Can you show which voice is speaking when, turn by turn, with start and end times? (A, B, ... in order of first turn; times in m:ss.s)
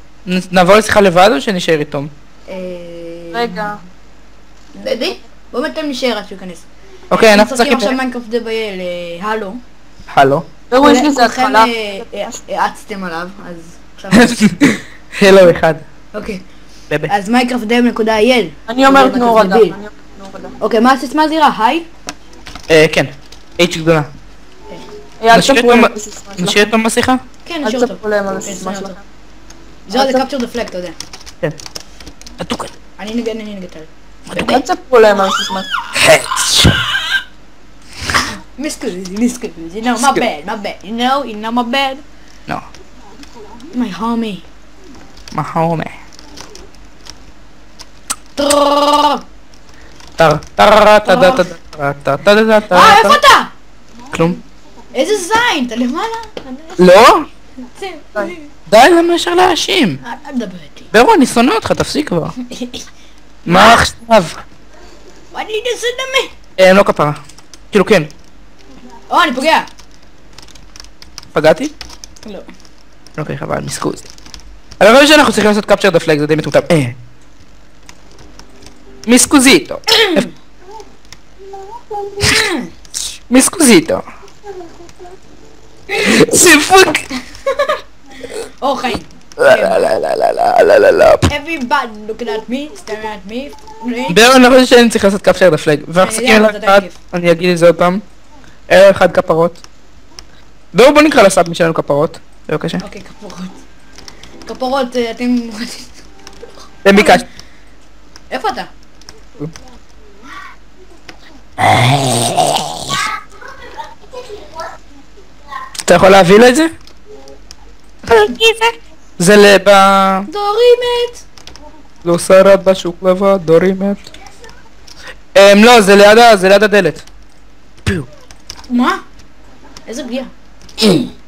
0:00.2-0:02.1 A
0:02.5-0:03.8 B
0:03.3-0:03.8 C
0:04.7-0:09.6 B
0:07.1-0:08.0 A
0:10.1-0:10.5 A
0:10.7-0:12.4 C
0:10.8-0:14.6 B
0:14.1-0:15.8 A
0:16.1-0:16.4 B
0:17.1-0:19.8 B
0:18.7-0:20.5 C
0:20.6-0:21.9 B
0:22.7-0:24.1 A
0:25.2-0:26.7 C
0:25.3-0:27.2 A
0:27.4-0:29.0 B
0:27.6-0:29.0 C
0:29.9-0:31.0 B
0:29.9-0:30.2 C
0:32.4-0:32.7 A
0:33.0-0:34.6 B
0:34.3-0:34.6 A
0:34.3-0:35.7 C
0:35.9-0:36.8 A
0:38.5-0:42.0 B
0:43.7-0:44.4 B
0:45.3-0:45.9 A
0:48.4-0:49.2 B
0:50.2-0:53.2 A
0:51.0-0:51.5 B
0:52.7-0:53.5 B
0:54.1-0:54.4 A
0:54.9-0:56.9 B
0:56.8-0:57.3 A
0:57.6-0:58.5 B
0:58.7-1:00.0 A
1:00.0-1:00.9 B
1:00.9-1:02.3 A
1:02.4-1:02.9 B
1:03.4-1:03.8 B
1:03.4-1:04.4 A
1:05.3-1:06.3 B
1:06.6-1:07.2 A
1:07.7-1:08.1 A
1:09.1-1:09.7 B
1:11.3-1:11.7 A
1:12.2-1:12.5 B
1:13.2-1:14.1 A
1:14.8-1:17.0 A
1:19.0-1:20.2 A
1:19.9-1:20.3 B
1:22.2-1:22.7 B
1:23.3-1:24.0 A
1:25.9-1:27.1 A
1:28.6-1:29.8 B
1:29.4-1:31.3 A
1:31.3-1:34.2 B
1:34.1-1:38.0 A
1:36.0-1:37.0 B
1:38.7-1:39.6 A
1:40.7-1:42.8 A
1:42.8-1:43.6 B
1:44.4-1:46.0 B
1:46.8-1:47.2 A
1:46.9-1:47.2 B
1:48.3-1:48.7 B
1:51.6-1:52.8 A
1:55.8-1:56.7 A
1:58.1-2:00.3 A
1:58.1-1:58.4 B
2:00.3-2:01.2 B
2:02.0-2:04.1 A
2:05.3-2:07.0 A
2:08.7-2:09.0 B
2:09.9-2:10.3 B